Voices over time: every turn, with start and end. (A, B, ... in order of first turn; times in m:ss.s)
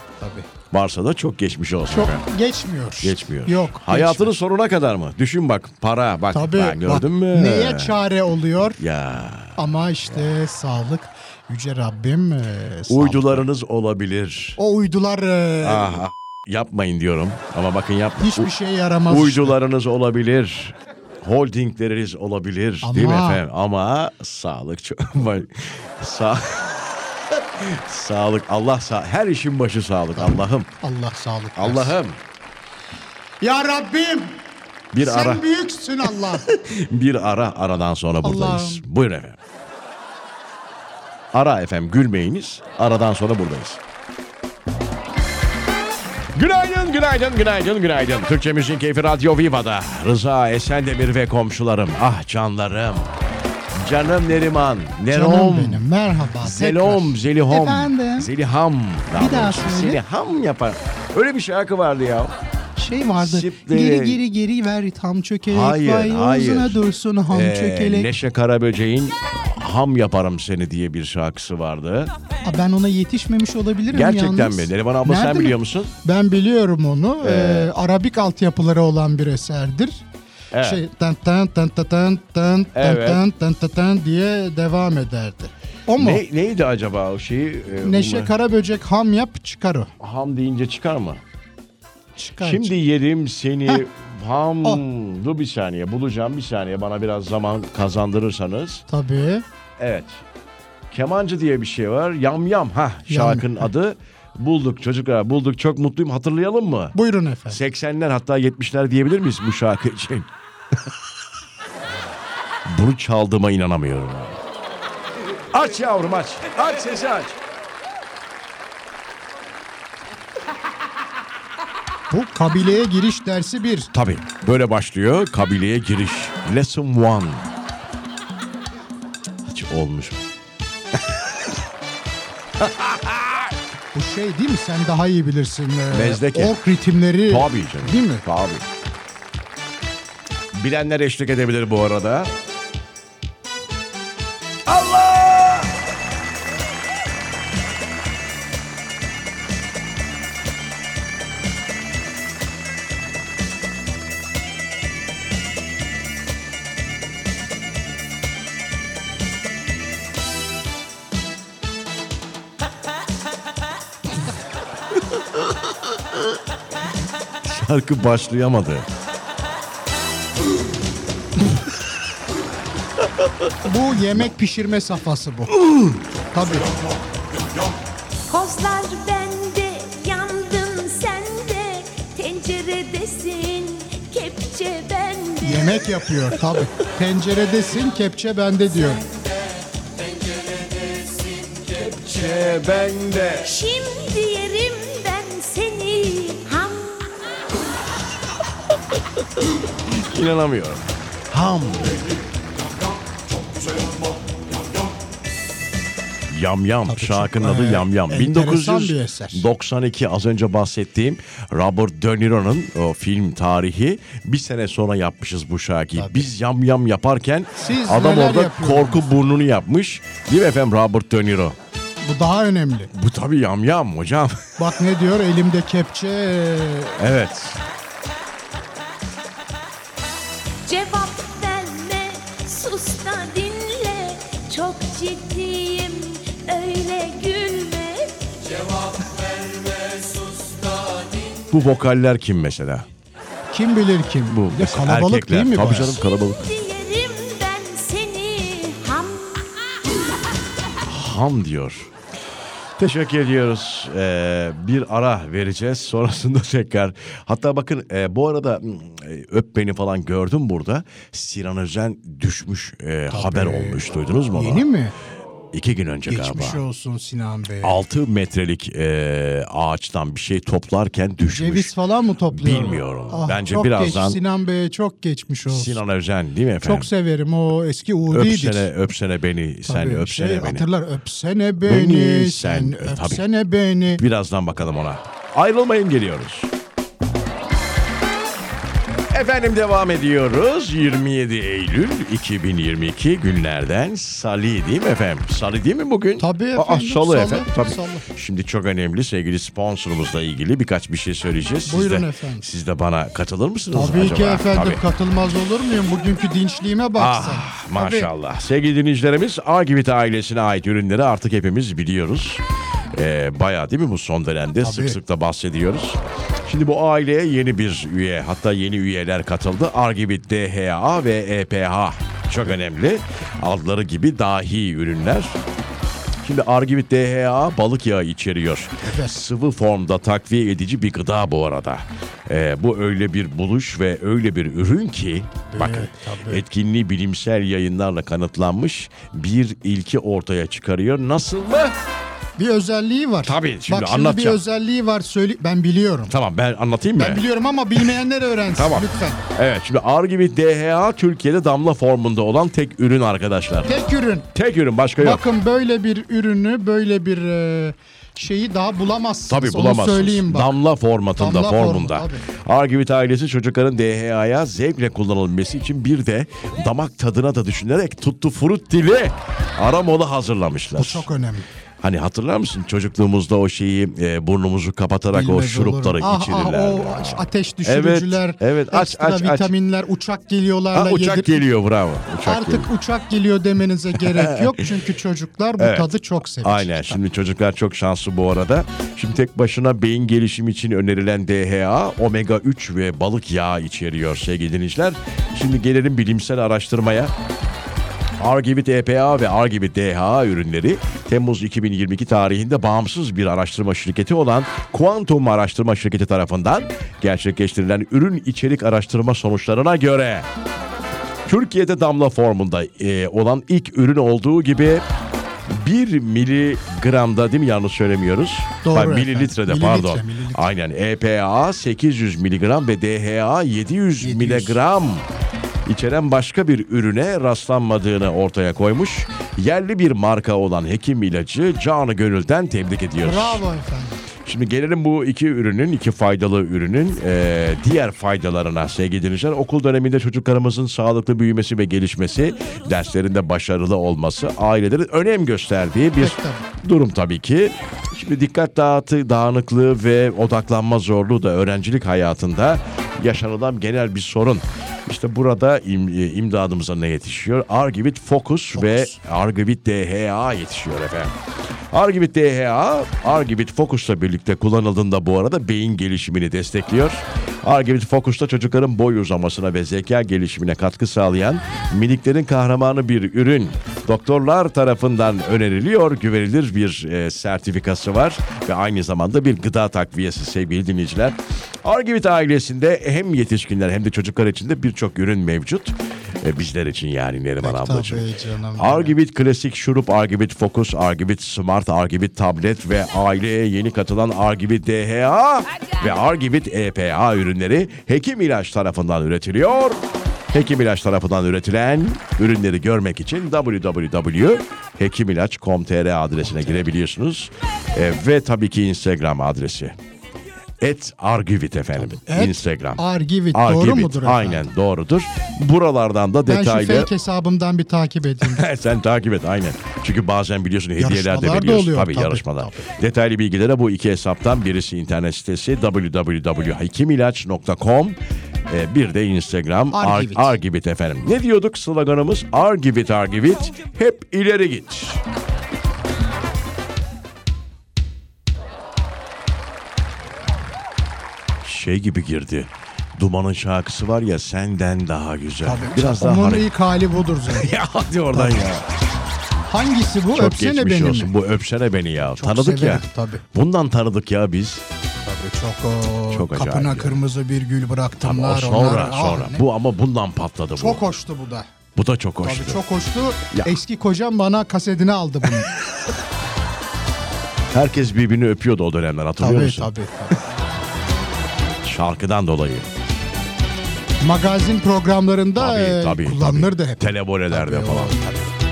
0:00.2-0:00.5 A
0:00.7-0:02.2 B
0:01.9-0:04.3 A
0:03.0-0:08.0 B
0:06.3-0:08.8 A
0:08.8-0:10.3 B
0:09.6-0:13.4 A
0:12.9-0:14.6 B
0:14.6-0:16.0 A
0:15.6-0:18.5 B
0:18.2-0:19.6 A
0:19.1-0:30.7 B
0:22.8-0:23.4 A
0:30.8-0:32.0 A
0:31.6-0:32.2 B
0:33.4-0:34.4 A
0:34.9-0:35.4 B
0:35.0-0:36.5 A
0:36.2-0:39.4 B
0:38.2-0:38.8 A
0:41.3-0:43.8 B
0:46.3-0:53.1 B
0:53.7-0:55.8 B
0:55.1-0:58.3 A
0:56.4-1:02.4 B
0:59.1-1:00.0 A
1:02.8-1:08.1 A
1:03.2-1:04.2 B
1:05.5-1:12.1 B
1:12.4-1:20.0 A
1:13.9-1:15.9 B
1:17.2-1:17.7 B
1:20.5-1:20.8 B
1:20.6-1:26.2 A
1:22.7-1:23.2 B
1:26.0-1:28.3 B
1:27.8-1:29.9 A
1:30.0-1:31.2 B
1:32.2-1:32.8 A
1:32.4-1:38.8 B
1:38.9-1:39.4 A
1:39.8-1:40.2 B
1:40.9-1:47.0 B
1:43.1-1:43.7 A
1:46.9-1:47.6 A
1:47.5-1:50.8 B
1:52.6-1:54.4 B
1:55.5-1:57.4 B
2:02.1-2:03.9 A
2:03.9-2:07.5 B
2:09.5-2:10.2 B
2:11.0-2:11.4 B
2:12.6-2:13.5 B
2:13.9-2:18.2 A
2:15.9-2:16.6 B
2:17.3-2:18.6 B
2:20.5-2:22.3 B
2:24.7-2:25.8 B
2:45.4-2:45.9 B
2:47.4-2:48.9 B
2:53.6-2:55.6 A
2:55.5-2:56.0 B
2:56.3-2:56.7 A
2:58.3-3:05.9 C
3:05.4-3:09.0 A
3:11.2-3:11.4 C
3:11.6-3:13.5 B
3:13.4-3:17.3 C
3:19.8-3:22.2 B
3:26.3-3:41.6 B
3:26.9-3:29.4 A
3:36.0-3:36.3 A
3:37.6-3:39.1 A
3:42.0-3:42.9 A
3:42.9-3:44.6 B
3:44.6-3:47.0 A
3:47.0-3:47.6 B
3:50.6-4:01.3 C
4:01.5-4:02.9 B
4:03.5-4:06.0 A
4:04.3-4:06.5 B
4:05.8-4:09.7 C
4:10.8-4:11.9 B
4:12.8-4:24.7 B
4:23.1-4:25.0 A
4:25.5-4:26.6 B
4:26.1-4:27.8 A
4:27.6-4:31.7 B
4:31.3-4:35.8 A
4:32.3-4:34.2 B
4:35.5-4:36.9 B
4:36.6-4:38.7 A
4:38.1-4:40.6 B
4:39.6-4:44.0 A
4:41.6-4:43.2 B
4:44.0-4:46.5 B
4:49.1-5:04.8 B
4:56.2-4:58.1 A
5:01.7-5:02.5 A
5:03.7-5:08.1 A
5:07.0-5:25.4 B
5:14.6-5:15.0 A
5:26.2-5:41.8 B
5:28.8-5:29.2 A
5:35.5-5:36.4 A
5:42.4-5:46.1 A
5:43.2-5:44.4 B
5:46.1-5:47.2 B
5:47.0-5:49.2 A
5:48.5-5:53.7 B
5:53.6-5:54.3 A
5:54.3-5:55.3 B
5:55.0-6:00.6 A
5:59.3-6:11.1 B
6:01.2-6:02.3 A
6:10.8-6:11.5 A
6:11.8-6:19.5 B
6:15.1-6:21.5 A
6:20.7-6:22.7 B
6:22.2-6:27.0 A
6:24.0-6:24.8 B
6:25.6-6:37.1 B
6:38.2-6:50.3 B
6:51.3-6:54.8 B
6:55.5-7:05.1 B
6:58.6-7:00.5 A
7:04.0-7:04.6 A
7:05.7-7:13.4 B
7:13.0-7:14.0 A
7:14.2-7:41.1 B
7:26.0-7:26.5 A
7:38.5-7:39.0 A
7:41.7-8:08.1 B
8:07.4-8:09.0 A
8:08.6-8:29.8 B
8:30.6-8:36.9 B
8:31.8-8:34.5 A
8:36.3-8:38.5 A
8:38.2-8:55.0 B
8:40.8-8:42.7 A
8:49.7-8:50.4 A
9:01.4-9:06.5 B
9:05.4-9:07.5 A
9:07.3-9:08.6 B
9:08.1-9:08.4 A
9:09.5-9:11.1 A
9:10.1-9:14.6 B
9:12.1-9:13.2 A
9:15.0-9:19.4 A
9:16.1-9:17.0 B
9:18.0-9:20.8 B
9:20.6-9:21.5 A
9:21.8-9:22.6 B
9:22.2-9:25.6 A
9:27.5-9:29.7 B
9:29.2-9:30.2 A
9:31.6-9:32.7 B
9:34.0-9:38.3 A
9:35.4-9:38.0 B